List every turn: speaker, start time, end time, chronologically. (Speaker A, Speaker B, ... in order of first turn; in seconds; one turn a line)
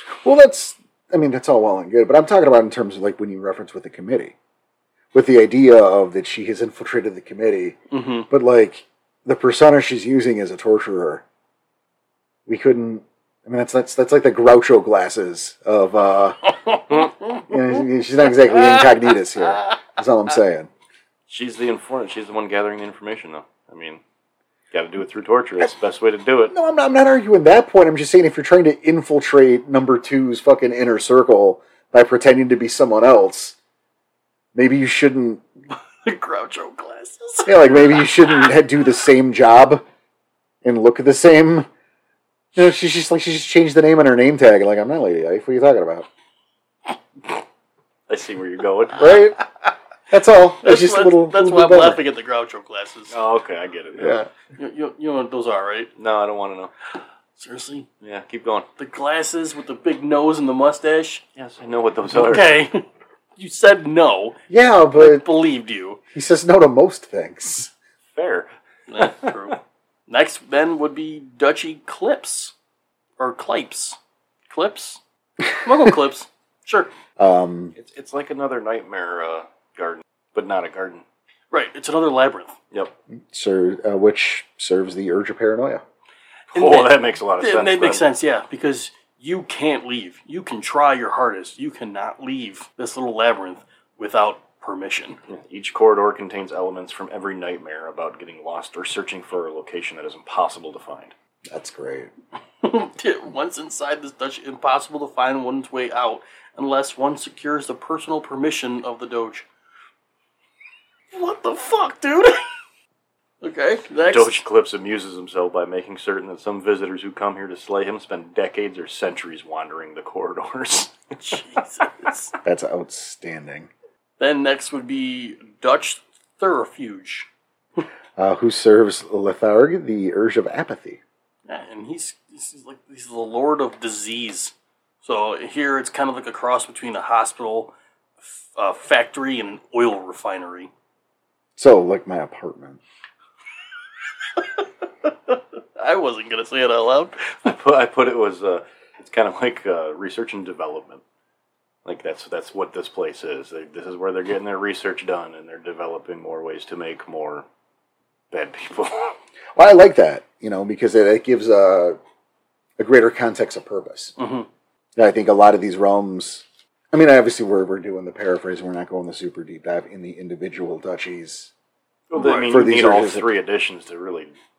Speaker A: 0.2-4.3
Speaker A: 5.1-11.2
Speaker B: 7.9-8.3
Speaker A: 12.4-16.8
Speaker B: 16.6-17.5
Speaker A: 17.5-20.7
Speaker C: 21.3-24.0
Speaker C: 24.7-26.5
Speaker A: 26.5-33.5
Speaker A: 34.5-35.4
Speaker B: 36.0-38.5
Speaker A: 37.4-39.8
Speaker A: 40.6-41.7
Speaker A: 42.5-46.1
Speaker C: 48.1-49.3
Speaker A: 48.9-49.4
Speaker A: 50.1-52.0
Speaker B: 50.6-53.1
Speaker C: 53.1-54.2
Speaker A: 54.0-54.3
Speaker B: 54.6-55.9
Speaker C: 56.0-56.7
Speaker B: 57.4-57.9
Speaker C: 58.0-58.7
Speaker B: 58.8-61.2
Speaker C: 61.4-62.6
Speaker B: 62.1-62.9
Speaker B: 63.4-64.4
Speaker A: 64.5-65.2
Speaker B: 65.0-66.0
Speaker A: 66.1-67.7
Speaker C: 68.1-69.5
Speaker B: 68.9-72.5
Speaker B: 73.2-74.0
Speaker B: 74.5-75.0
Speaker B: 75.6-76.9
Speaker A: 77.2-77.7
Speaker C: 77.8-81.0
Speaker B: 81.5-82.5
Speaker A: 83.3-85.8
Speaker C: 86.5-88.0
Speaker B: 86.5-95.2
Speaker C: 95.3-101.1
Speaker A: 101.5-102.1
Speaker B: 102.6-109.5
Speaker B: 111.1-112.4
Speaker B: 113.4-114.4
Speaker C: 114.0-121.4
Speaker B: 121.2-122.3
Speaker A: 122.4-123.7
Speaker B: 124.2-127.3
Speaker A: 128.2-131.0
Speaker B: 131.5-140.7
Speaker A: 141.6-142.8
Speaker B: 144.3-147.4
Speaker C: 147.4-151.0
Speaker C: 151.8-157.4
Speaker C: 158.3-159.2
Speaker A: 159.6-162.0
Speaker A: 162.8-164.1
Speaker B: 164.2-164.5
Speaker A: 165.0-171.5
Speaker C: 172.1-174.3
Speaker B: 172.1-172.6
Speaker A: 172.3-173.3